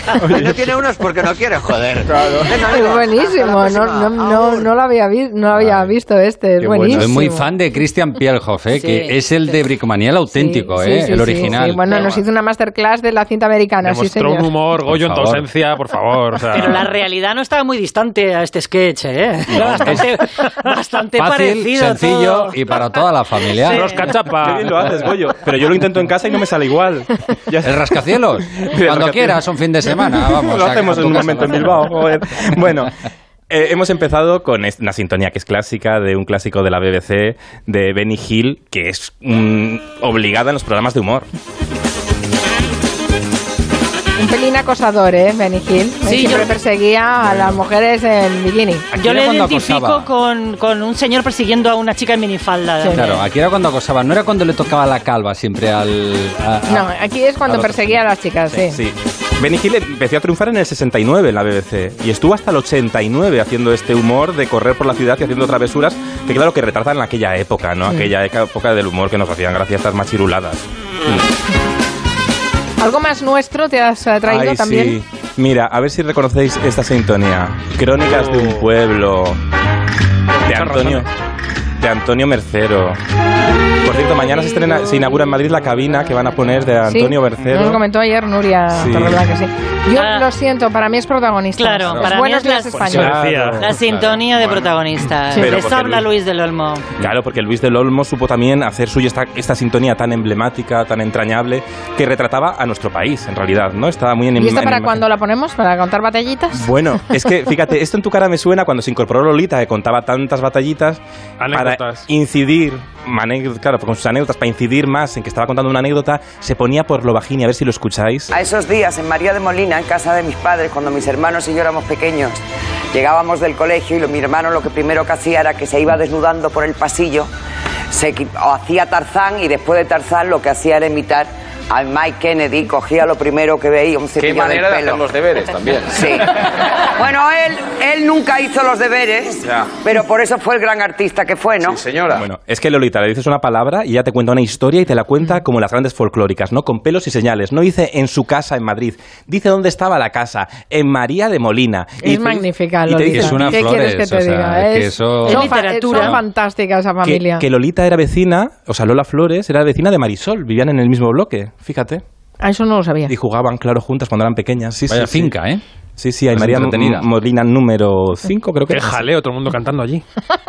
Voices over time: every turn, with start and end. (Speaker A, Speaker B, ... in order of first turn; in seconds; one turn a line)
Speaker A: 0.2-0.6
Speaker B: 0.3-0.8
Speaker C: 0.3-4.7
Speaker A: 2.1-2.5
Speaker D: 2.7-7.5
Speaker E: 5.5-6.0
Speaker A: 6.6-7.1
Speaker E: 6.9-12.0
Speaker F: 8.7-9.6
Speaker D: 10.3-14.5
Speaker G: 13.8-16.9
Speaker E: 14.8-15.5
Speaker F: 16.5-22.9
Speaker E: 19.6-20.1
Speaker E: 21.2-24.1
Speaker F: 23.6-24.2
Speaker G: 23.8-25.0
Speaker A: 24.4-32.9
Speaker E: 27.6-32.0
Speaker A: 33.5-41.3
Speaker D: 44.2-48.9
Speaker F: 46.0-46.5
Speaker F: 48.9-53.2
Speaker E: 49.0-50.1
Speaker E: 52.9-56.9
Speaker D: 56.7-58.8
Speaker E: 57.5-58.0
Speaker A: 58.7-71.2
Speaker D: 72.8-75.0
Speaker A: 74.2-79.4
Speaker A: 80.5-81.1
Speaker G: 80.5-81.0
Speaker A: 81.8-83.0
Speaker A: 83.8-87.8
Speaker D: 86.9-93.4
Speaker A: 88.7-89.2
Speaker F: 89.9-90.3
Speaker F: 91.5-96.9
Speaker G: 92.8-94.7
Speaker A: 92.9-93.7
Speaker E: 93.9-94.2
Speaker A: 95.4-96.1
Speaker A: 97.0-105.0
Speaker D: 104.4-106.8
Speaker A: 106.5-111.0
Speaker G: 111.4-112.1
Speaker A: 111.5-118.3
Speaker H: 118.3-122.4
Speaker H: 122.9-127.3
Speaker H: 127.9-135.0
Speaker B: 134.1-136.2
Speaker H: 135.9-136.3
Speaker H: 137.0-141.8
Speaker A: 142.1-153.7
Speaker D: 152.0-157.4
Speaker E: 153.1-156.2
Speaker F: 155.2-156.2
Speaker A: 157.0-162.0
Speaker D: 162.4-163.1
Speaker A: 163.1-165.3
Speaker E: 164.8-165.6
Speaker A: 166.0-169.0
Speaker E: 166.3-167.1
Speaker G: 168.7-170.1